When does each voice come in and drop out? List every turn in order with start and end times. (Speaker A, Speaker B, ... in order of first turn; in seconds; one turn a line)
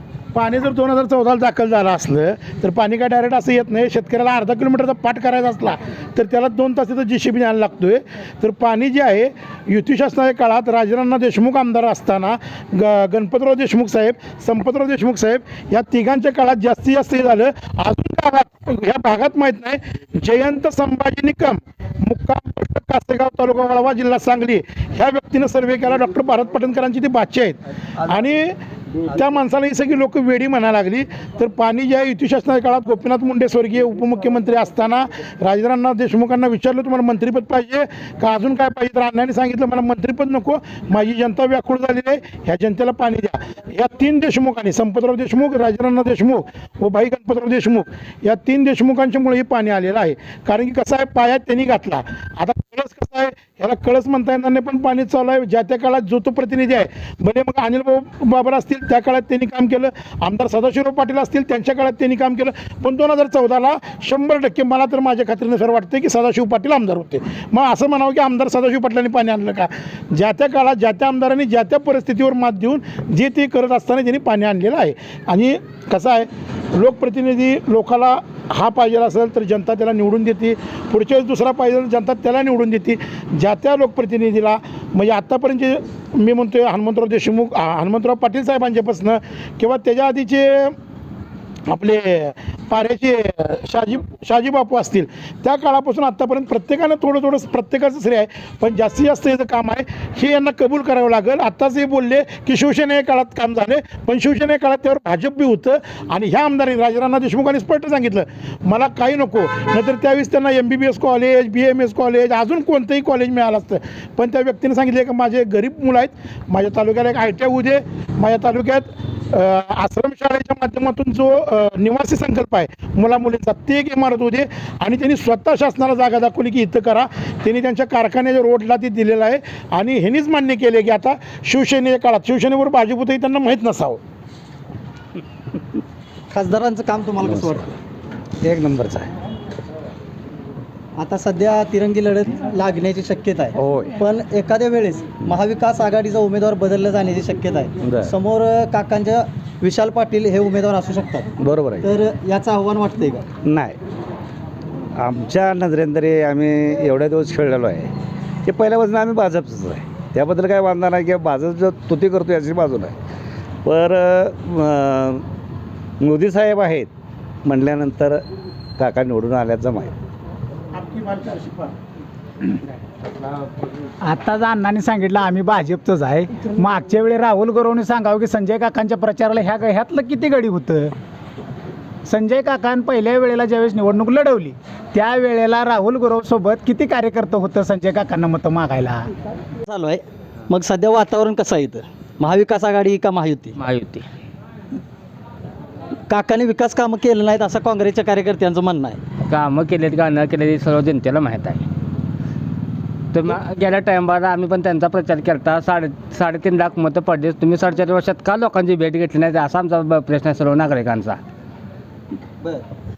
Speaker A: 0.3-28.5
Speaker A: 29.1-90.7
Speaker A: 91.7-134.0
Speaker B: 136.3-137.7
Speaker C: 138.4-139.1
Speaker B: 141.0-151.3
Speaker C: 143.6-143.9
Speaker C: 147.8-148.1
Speaker C: 151.4-151.9
Speaker B: 151.8-153.2
Speaker C: 153.4-153.8
Speaker C: 155.0-157.9
Speaker C: 158.4-162.9
Speaker C: 163.6-165.2
Speaker C: 166.0-166.9
Speaker C: 167.4-168.2
Speaker C: 168.8-169.9
Speaker A: 170.8-171.7
Speaker D: 174.0-180.9
Speaker D: 182.1-189.1
Speaker B: 189.6-193.5
Speaker E: 193.6-194.1
Speaker B: 196.1-199.0
Speaker E: 199.3-201.6
Speaker E: 203.1-211.2